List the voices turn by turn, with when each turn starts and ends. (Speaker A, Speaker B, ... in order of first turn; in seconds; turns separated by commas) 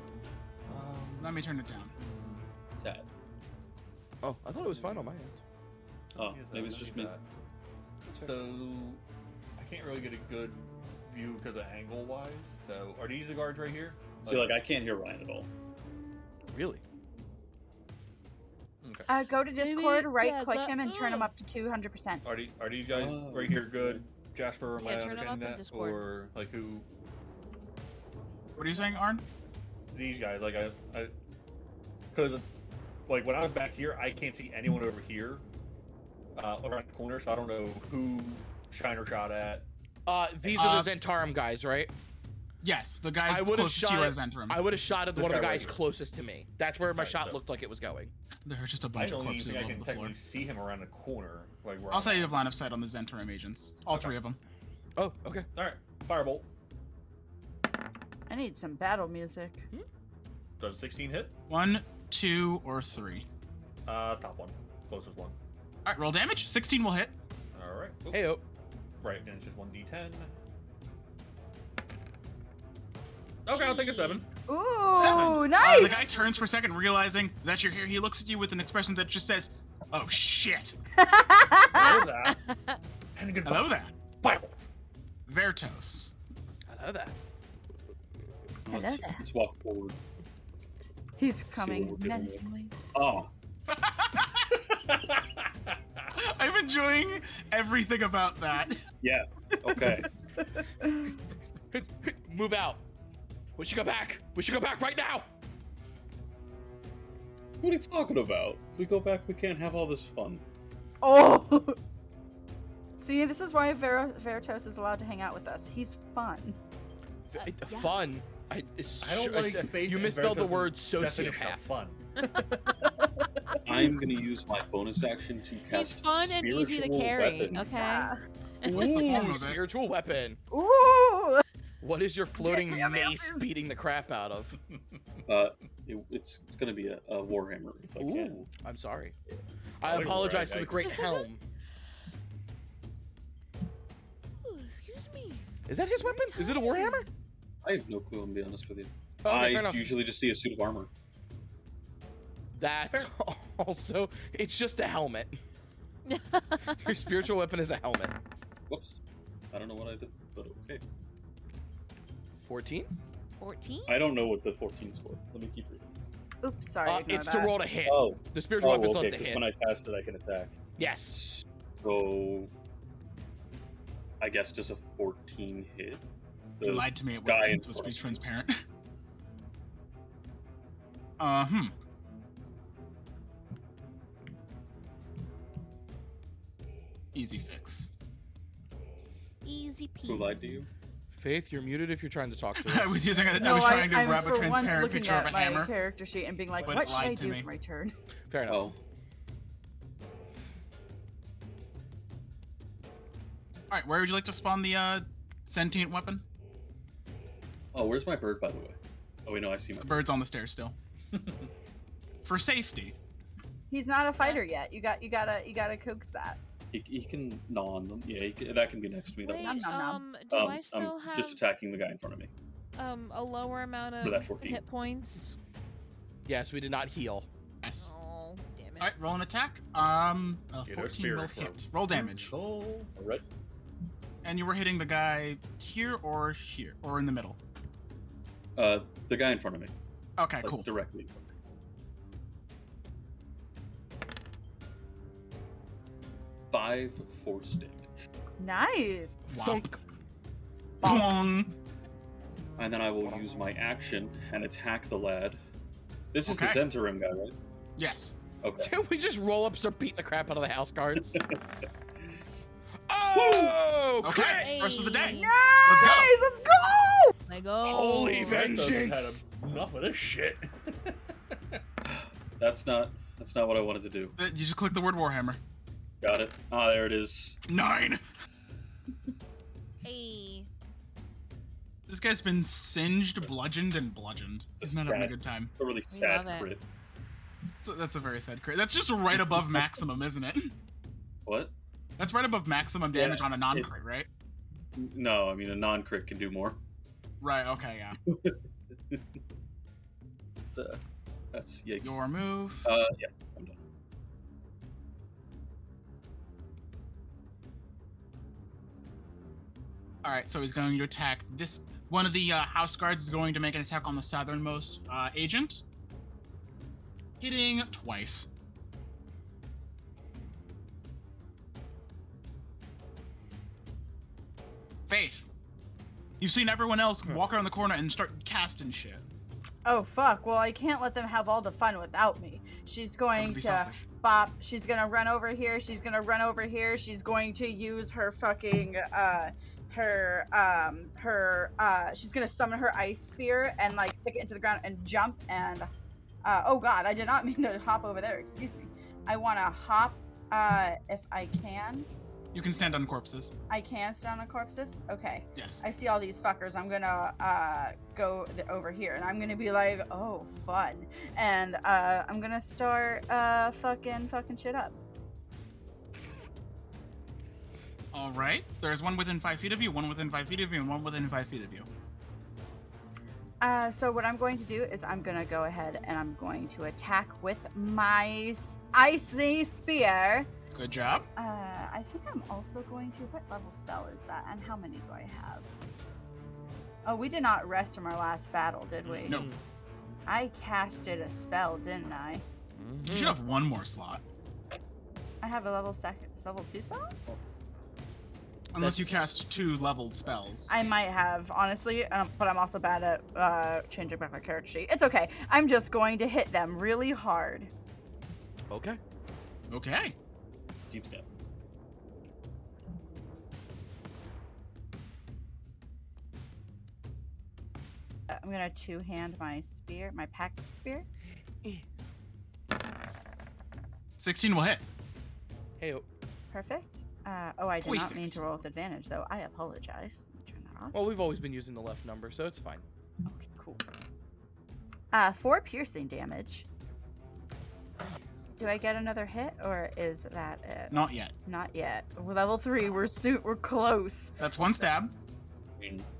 Speaker A: 0.7-2.4, Speaker B: 1.2-1.9, Speaker C: 2.8-3.1, Speaker D: 4.2-5.4, Speaker C: 6.1-7.1, Speaker A: 6.2-7.2, Speaker A: 8.1-9.0, Speaker A: 9.6-14.6, Speaker C: 14.2-15.5, Speaker D: 16.5-16.8, Speaker A: 18.8-19.1, Speaker E: 19.1-22.2, Speaker F: 19.6-21.3, Speaker A: 22.2-26.9, Speaker C: 22.9-24.0, Speaker F: 24.8-26.1, Speaker B: 28.6-29.2, Speaker A: 29.9-31.1, Speaker A: 32.1-32.5, Speaker A: 33.1-35.4, Speaker A: 36.4-39.7, Speaker D: 40.0-41.9, Speaker B: 40.5-40.9, Speaker B: 42.6-44.6, Speaker D: 43.2-48.1, Speaker A: 45.1-45.8, Speaker A: 46.9-47.4, Speaker B: 48.4-50.1, Speaker A: 48.9-52.4, Speaker B: 51.9-54.4, Speaker A: 53.9-54.1, Speaker D: 55.0-55.5, Speaker A: 55.5-56.5, Speaker E: 58.3-59.7, Speaker A: 60.6-61.4, Speaker B: 61.5-63.2, Speaker A: 63.9-65.4, Speaker B: 65.8-67.1, Speaker A: 67.5-68.3, Speaker D: 68.1-68.4, Speaker A: 69.0-70.3, Speaker A: 73.4-74.2, Speaker F: 73.5-74.2, Speaker E: 74.5-76.1, Speaker B: 74.9-80.8, Speaker E: 81.0-82.0, Speaker A: 81.7-82.4, Speaker F: 81.8-82.8, Speaker A: 83.1-84.5, Speaker B: 83.4-83.9, Speaker B: 85.3-86.1, Speaker D: 86.7-87.1, Speaker C: 88.7-90.0, Speaker E: 88.7-89.2, Speaker E: 91.2-92.7, Speaker C: 91.5-93.3, Speaker B: 93.7-94.4, Speaker A: 94.6-96.1, Speaker B: 96.1-98.8, Speaker C: 99.0-100.1, Speaker E: 100.8-101.1, Speaker D: 101.7-102.8, Speaker D: 103.6-105.3, Speaker C: 107.6-110.4, Speaker E: 111.0-111.8, Speaker E: 113.0-116.6, Speaker D: 117.3-121.6, Speaker A: 119.0-122.5, Speaker C: 123.6-127.7, Speaker F: 125.7-128.9, Speaker E: 127.6-128.2, Speaker D: 128.6-130.4, Speaker B: 128.6-129.6, Speaker E: 130.5-131.4, Speaker D: 131.8-134.6, Speaker E: 132.4-133.4, Speaker C: 135.3-138.4, Speaker D: 138.0-139.1, Speaker D: 139.8-141.4, Speaker A: 139.8-140.9, Speaker F: 140.9-141.2, Speaker F: 144.4-147.1, Speaker D: 145.7-147.1, Speaker C: 147.6-150.9, Speaker D: 149.2-149.9, Speaker D: 152.5-155.4, Speaker F: 156.1-156.8, Speaker D: 156.7-158.1, Speaker C: 158.7-159.0, Speaker C: 159.5-160.8, Speaker D: 162.4-162.9, Speaker F: 163.4-164.0, Speaker C: 163.9-165.9, Speaker E: 166.4-167.6, Speaker D: 166.8-169.4, Speaker C: 167.9-170.6, Speaker D: 170.8-171.2, Speaker C: 171.1-172.5, Speaker C: 174.2-176.0, Speaker C: 176.6-178.0, Speaker B: 176.6-178.6, Speaker B: 181.2-181.7, Speaker B: 187.1-187.9, Speaker F: 189.4-190.6, Speaker C: 190.1-190.7, Speaker D: 191.1-193.7, Speaker B: 192.6-195.7, Speaker E: 193.4-197.9, Speaker B: 196.6-197.5, Speaker D: 198.3-198.7, Speaker C: 198.5-198.8, Speaker B: 203.7-206.2, Speaker C: 207.7-210.1, Speaker B: 209.8-210.7, Speaker A: 211.1-211.4, Speaker B: 212.2-212.9, Speaker E: 213.7-216.4, Speaker C: 216.7-219.7, Speaker F: 219.2-221.4, Speaker E: 219.4-220.0, Speaker C: 220.3-222.3, Speaker F: 222.8-225.3, Speaker C: 224.0-224.6, Speaker D: 226.2-227.3, Speaker B: 227.6-227.9, Speaker F: 227.8-228.9, Speaker B: 228.8-232.3, Speaker A: 230.7-232.9, Speaker C: 232.9-233.2, Speaker B: 234.2-237.4, Speaker C: 238.6-239.7, Speaker B: 240.2-240.7, Speaker C: 240.4-241.3, Speaker C: 246.5-248.1, Speaker E: 248.4-249.2, Speaker D: 249.3-249.8, Speaker B: 249.3-249.7, Speaker D: 250.8-251.2, Speaker B: 250.8-251.5, Speaker C: 252.6-255.4, Speaker C: 256.1-257.4, Speaker B: 256.2-256.6, Speaker B: 257.8-258.1, Speaker C: 258.4-258.7, Speaker D: 258.6-261.2, Speaker C: 261.0-261.4, Speaker D: 262.9-264.5, Speaker C: 263.1-263.6, Speaker B: 264.0-266.1, Speaker F: 264.2-266.1, Speaker E: 265.1-267.1, Speaker F: 267.3-268.5, Speaker D: 267.6-269.2, Speaker A: 268.2-271.6, Speaker C: 271.9-274.1, Speaker B: 274.1-275.4, Speaker C: 276.0-277.4, Speaker B: 277.5-278.0, Speaker F: 279.8-280.5, Speaker B: 281.9-285.5, Speaker C: 284.6-286.6, Speaker F: 285.9-286.5, Speaker B: 287.6-290.5, Speaker C: 289.2-289.6, Speaker C: 291.2-291.5, Speaker B: 292.0-294.1, Speaker C: 292.9-293.7, Speaker C: 294.8-296.6, Speaker B: 297.2-298.0, Speaker C: 298.1-298.4, Speaker C: 300.5-300.8, Speaker C: 301.3-302.0, Speaker B: 301.8-302.6, Speaker C: 302.6-303.6, Speaker B: 310.0-315.6, Speaker B: 317.2-318.3, Speaker B: 324.9-325.2, Speaker B: 326.2-329.0, Speaker E: 329.6-345.7, Speaker B: 333.1-333.8, Speaker E: 346.2-351.9, Speaker B: 352.3-353.3, Speaker E: 353.5-364.7, Speaker B: 355.4-355.6, Speaker B: 367.9-371.7, Speaker E: 373.4-380.3, Speaker B: 380.5-381.1, Speaker E: 381.1-385.5, Speaker E: 386.9-389.2, Speaker D: 388.9-389.4, Speaker E: 390.1-392.2, Speaker D: 392.6-393.2, Speaker B: 392.9-394.0, Speaker E: 395.2-396.9, Speaker B: 398.5-400.5, Speaker D: 398.6-399.3, Speaker E: 400.5-407.5, Speaker D: 408.5-408.8, Speaker B: 409.5-409.9, Speaker C: 410.7-411.1, Speaker E: 418.1-420.9, Speaker B: 424.0-424.6, Speaker D: 425.6-425.9, Speaker E: 426.3-430.8, Speaker B: 427.6-428.2, Speaker D: 430.7-432.6, Speaker E: 433.1-433.6, Speaker E: 434.9-436.4, Speaker E: 438.4-444.1, Speaker B: 440.7-441.1, Speaker B: 444.2-444.9, Speaker C: 445.6-445.9